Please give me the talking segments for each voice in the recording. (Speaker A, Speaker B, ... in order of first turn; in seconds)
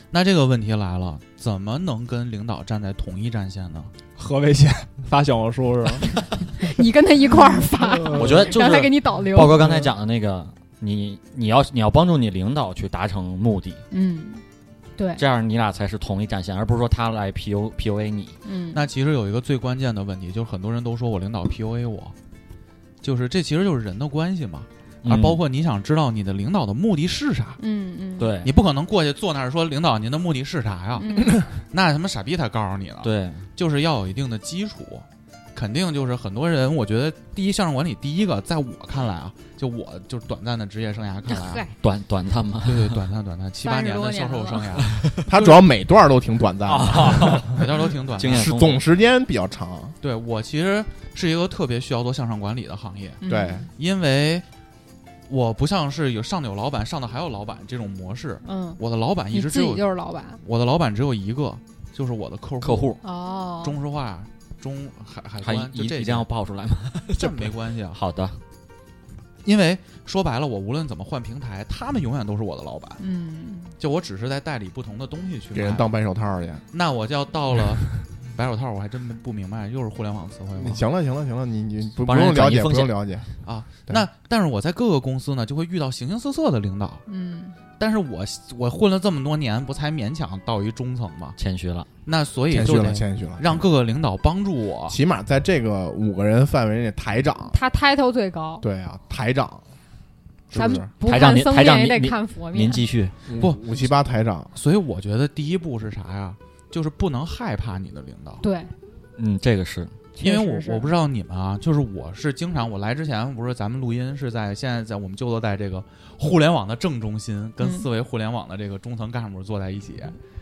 Speaker A: 0.1-3.9, 18.7-22.1, 23.0-27.6, 28.4-41.6, 42.6-45.2, 47.5-48.5, 50.0-53.2, 53.8-54.4, 55.3-59.9, 60.4-63.0, 63.6-66.2, 67.2-68.0, 69.4-73.0, 73.8-75.9, 76.7-80.8, 83.4-87.0, 87.8-91.4, 92.0-95.0, 103.4-103.9, 104.5-108.4, 110.2-120.2
Speaker B: 4.2-6.2, 7.6-8.5, 9.6-9.9
Speaker C: 6.6-9.6, 13.9-14.4, 15.0-15.2, 18.4-18.8, 27.6-28.3, 31.0-31.4, 41.3-41.7, 43.6-44.6, 53.2-53.6, 58.4-58.8, 59.3-60.4, 63.0-63.8, 73.0-73.7, 87.1-87.6, 97.5-98.6, 100.5-102.8, 108.4-108.7, 110.1-110.9, 117.6-117.8
Speaker D: 8.1-13.8, 15.2-18.4, 25.0-25.4, 28.2-28.5, 33.0-33.4, 41.8-43.0, 46.7-47.6, 48.2-48.8, 62.6-63.0, 65.4-68.4, 82.0-82.9, 91.4-91.9, 101.0-103.1, 109.2-110.0
Speaker E: 45.2-47.5, 48.3-49.9, 53.2-53.7, 75.5-76.6, 80.5-83.3, 92.5-93.7, 94.9-97.5, 98.6-99.6, 100.5-100.9, 103.2-104.5